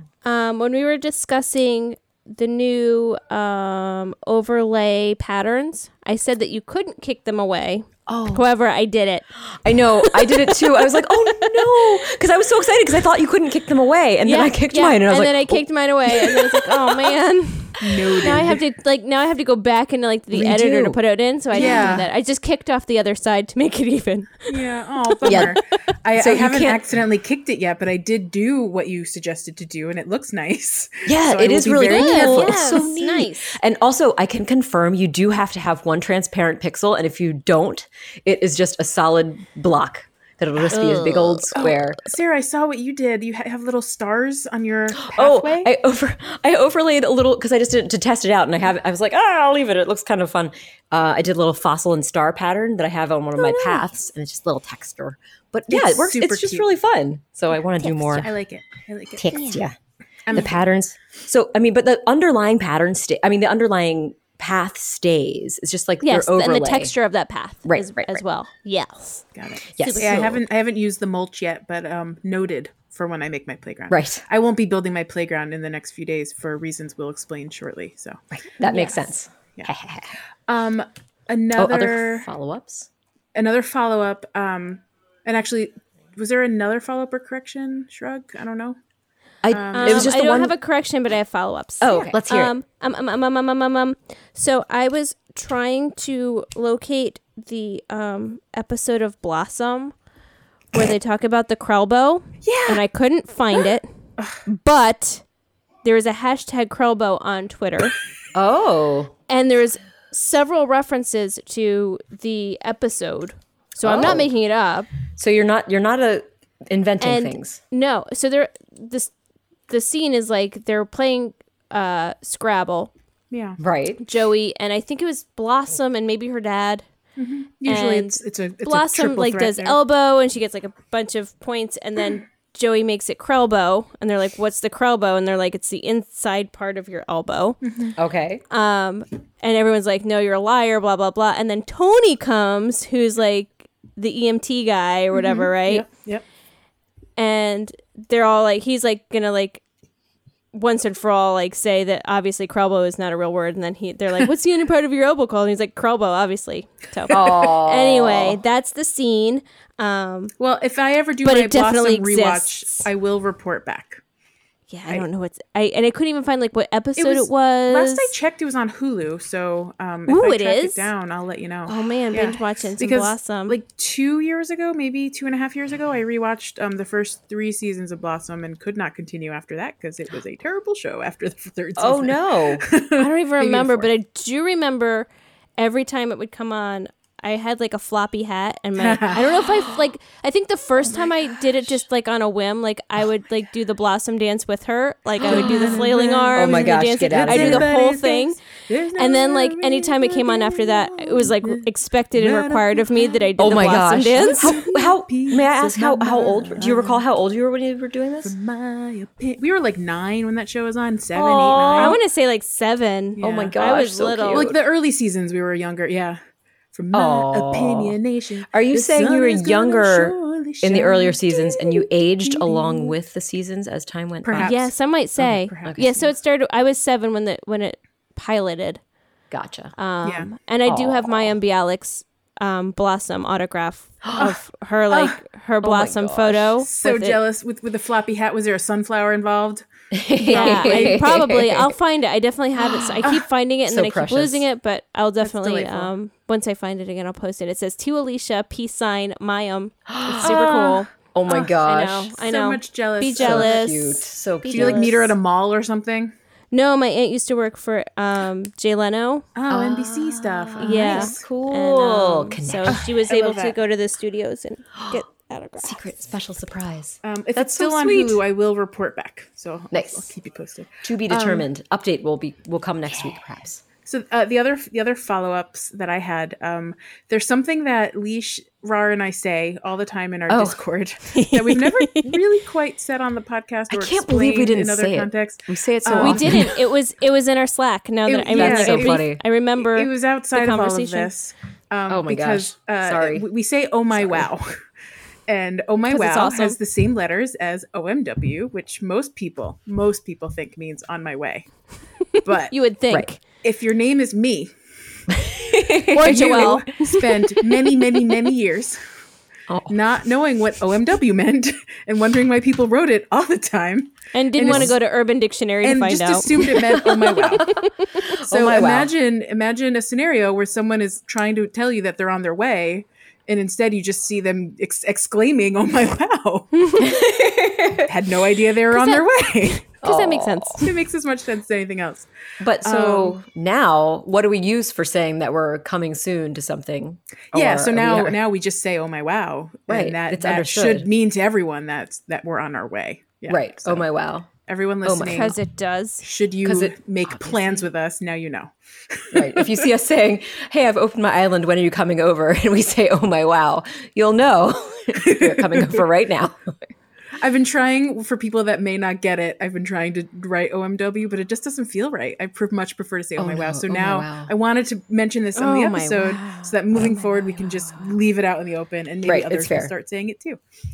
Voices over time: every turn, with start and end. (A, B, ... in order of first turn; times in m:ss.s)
0:00.2-0:09.3 A
0:08.1-0:08.5 B
0:09.5-0:17.1 B
0:10.0-0:10.6 A
0:14.2-0:24.5 A
0:17.8-0:18.6 C
0:20.3-0:21.0 B
0:21.5-0:22.1 C
0:21.5-0:22.1 B
0:24.5-0:32.8 C
0:25.2-0:25.6 B
0:26.2-0:26.8 B
0:31.1-0:42.0 B
0:31.8-0:33.6 A
0:40.6-0:41.5 A
0:41.6-0:45.7 C
0:44.9-0:58.3 B
0:53.4-0:53.8 A
0:55.7-0:56.7 C
0:57.8-0:58.3 A
0:58.1-0:59.4 C
0:59.2-0:59.8 B
0:59.3-0:59.6 A
1:00.3-1:00.6 C
1:00.3-1:06.9 B
1:06.0-1:09.2 A
1:07.6-1:08.2 B
1:09.4-1:18.2 C
1:09.8-1:10.4 B
1:09.8-1:10.4 A
1:13.9-1:14.2 B
1:18.3-1:20.1 B
1:18.7-1:19.0 A
1:20.5-1:22.3 C
1:21.6-1:22.9 B
1:23.4-1:28.8 C
1:29.4-1:30.5 B
1:29.5-1:30.2 C
1:29.7-1:40.0 A
1:31.8-1:32.5 B
1:40.7-1:43.9 A
1:42.4-1:42.8 C
1:44.5-1:45.2 A
1:45.8-1:48.0 A
1:48.3-1:49.1 B
1:49.3-1:54.9 A
1:53.8-1:54.3 B
1:55.2-1:57.6 B
1:57.0-1:59.1 A
1:59.7-2:02.9 A
2:03.3-2:03.6 C
2:03.6-2:04.0 B
2:04.0-2:06.8 A
2:07.2-2:09.8 C
2:07.6-2:17.6 A
2:17.6-2:18.0 C
2:18.0-2:18.4 B
2:18.5-2:25.9 A
2:25.1-2:26.2 C
2:27.2-2:29.6 A
2:30.5-2:40.3 A
2:37.1-2:37.4 C
2:37.1-2:38.4 B
2:40.4-2:44.0 C
2:41.2-2:42.9 A
2:44.7-2:48.1 A
2:47.0-3:03.9 C
2:50.1-2:50.9 A
2:51.7-2:53.6 A
3:01.8-3:02.6 B
3:03.0-3:18.4 A
3:08.8-3:09.3 C
3:15.2-3:27.0 C
3:15.2-3:17.7 B
3:19.0-3:24.6 A
3:23.4-3:28.4 B
3:28.2-3:32.0 C
3:31.1-3:32.0 B
3:31.8-3:34.5 A
3:33.2-3:33.6 C
3:33.2-3:34.6 B
3:34.3-3:36.2 C
3:36.7-3:43.0 C
3:36.9-3:38.0 B
3:38.5-3:44.6 B
3:44.2-3:44.7 C
3:44.4-3:48.8 A
3:45.2-3:45.8 B
3:45.3-3:46.1 C
3:49.3-3:49.7 B
3:49.8-3:57.2 A
3:50.0-3:50.3 C
3:50.7-3:51.3 B
3:54.0-3:54.3 B
3:54.9-3:55.2 C
3:55.6-3:56.5 B
3:56.6-3:59.7 C
3:59.9-4:01.7 B
4:00.2-4:01.1 C
4:00.3-4:10.9 A
4:02.6-4:03.1 B
4:03.7-4:04.5 B
4:05.2-4:05.9 C
4:09.9-4:12.2 B
4:10.2-4:10.7 C
4:11.6-4:15.1 A
4:12.2-4:13.6 C
4:13.2-4:15.1 B
4:14.5-4:16.1 C
4:16.5-4:19.3 A
4:19.4-4:21.2 C
4:19.5-4:22.8 B
4:20.6-4:25.8 A
4:22.7-4:23.6 C
4:25.6-4:28.2 B
4:27.0-4:31.5 C
4:29.7-4:30.1 B
4:30.8-4:33.6 B
4:33.8-4:46.6 C
4:40.3-4:40.6 B
4:41.2-4:42.2 A
4:43.7-4:46.6 B
4:46.0-4:51.1 A
4:48.1-4:54.6 C
4:48.3-4:49.2 B
4:51.9-4:53.3 B
4:53.9-4:54.3 B
4:55.3-5:01.5 C
4:55.9-4:56.6 A
5:02.2-5:03.2 A
5:02.2-5:02.5 C
5:03.4-5:04.5 C
5:05.1-5:06.6 B
5:05.9-5:07.4 A
5:06.0-5:08.8 C
5:09.5-5:09.8 B
5:09.7-5:14.8 C
5:14.1-5:17.9 A
5:14.4-5:14.7 B
5:15.6-5:17.6 C
5:16.5-5:18.9 B
5:18.2-5:26.6 C
5:26.6-5:26.9 A
5:26.8-5:27.9 B
5:27.8-5:29.7 C
5:28.7-5:30.7 A
5:29.8-5:30.6 B
5:30.6-5:32.1 C
5:32.4-5:38.2 B
5:32.6-5:33.2 C
5:37.3-5:43.9 C
5:39.7-5:40.9 B
5:43.3-5:44.3 B
5:44.5-5:45.4 C
5:44.8-5:45.3 B
5:45.0-5:46.0 A
5:46.0-5:49.7 C
5:46.4-5:47.7 B
5:49.1-5:56.6 B
5:55.0-5:55.8 C
5:57.2-6:10.4 C
6:03.2-6:04.3 B
6:05.4-6:07.4 A
6:09.0-6:09.7 B